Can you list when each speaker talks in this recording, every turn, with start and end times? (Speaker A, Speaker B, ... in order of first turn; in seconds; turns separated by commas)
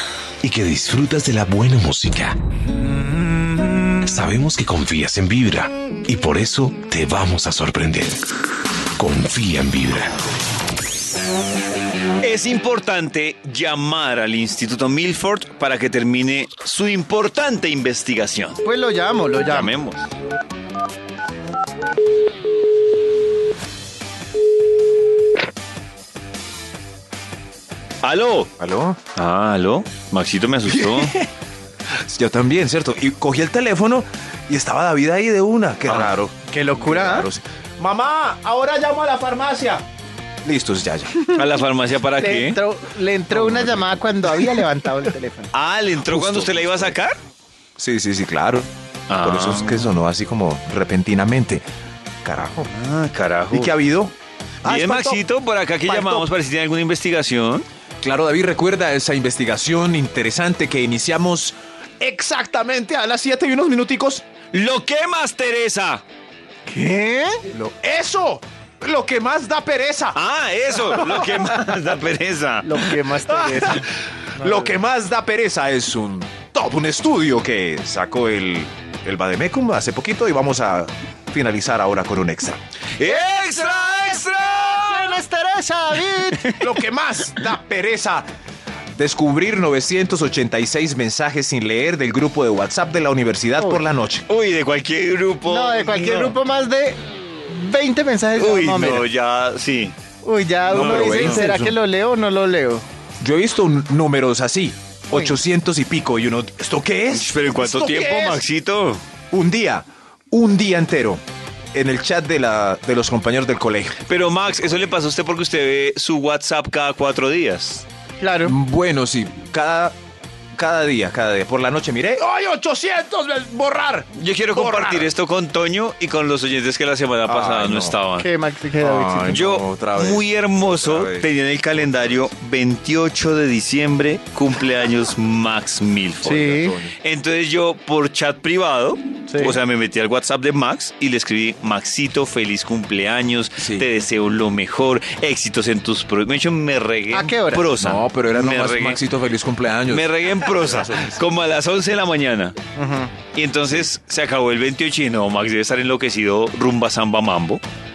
Speaker A: 0.4-2.4, Speaker A: 4.0-8.2, Speaker A: 9.0-10.2, Speaker B: 12.2-18.6, Speaker C: 18.6-19.8, Speaker B: 19.3-20.1, Speaker B: 28.0-28.5, Speaker D: 28.6-29.0, Speaker B: 29.1-31.1, Speaker D: 30.7-31.3, Speaker D: 32.1-39.9, Speaker B: 35.9-36.1, Speaker C: 36.5-37.3, Speaker D: 40.4-41.1, Speaker B: 41.3-42.6, Speaker C: 42.2-45.5, Speaker D: 43.3-44.6, Speaker B: 45.5-47.2, Speaker D: 46.0-47.0, Speaker D: 47.8-48.7, Speaker B: 49.1-49.9, Speaker D: 49.2-51.6, Speaker D: 52.2-52.7, Speaker B: 52.7-53.8, Speaker D: 53.5-55.2, Speaker B: 54.6-57.6, Speaker D: 55.9-56.3, Speaker D: 58.0-64.2, Speaker B: 64.5-66.0, Speaker C: 66.7-67.4, Speaker D: 67.5-70.2, Speaker B: 70.2-72.7, Speaker D: 70.7-71.5, Speaker C: 72.6-73.8, Speaker D: 73.3-73.8, Speaker D: 74.4-83.3, Speaker C: 74.4-74.7, Speaker B: 83.0-85.2, Speaker C: 83.0-86.6, Speaker D: 86.6-88.3, Speaker D: 89.0-94.3, Speaker C: 93.6-93.8, Speaker B: 94.3-96.4, Speaker C: 95.5-99.1, Speaker B: 98.4-100.0, Speaker C: 100.2-102.8, Speaker D: 100.7-101.8, Speaker B: 100.7-101.4, Speaker D: 103.2-108.5, Speaker B: 107.1-109.0, Speaker D: 109.3-111.2, Speaker D: 111.7-114.0, Speaker B: 114.1-117.8, Speaker C: 118.2-118.6, Speaker D: 118.4-119.9, Speaker D: 120.5-125.1, Speaker B: 124.2-128.3, Speaker D: 127.2-128.0, Speaker C: 128.2-129.4, Speaker D: 128.8-132.3, Speaker B: 129.3-136.4, Speaker D: 136.2-137.0, Speaker C: 136.2-136.8, Speaker B: 137.0-149.0, Speaker C: 139.3-139.6, Speaker D: 143.6-143.9, Speaker C: 147.1-147.7, Speaker D: 147.8-151.2, Speaker B: 149.9-152.6, Speaker C: 152.8-153.1, Speaker B: 153.3-157.6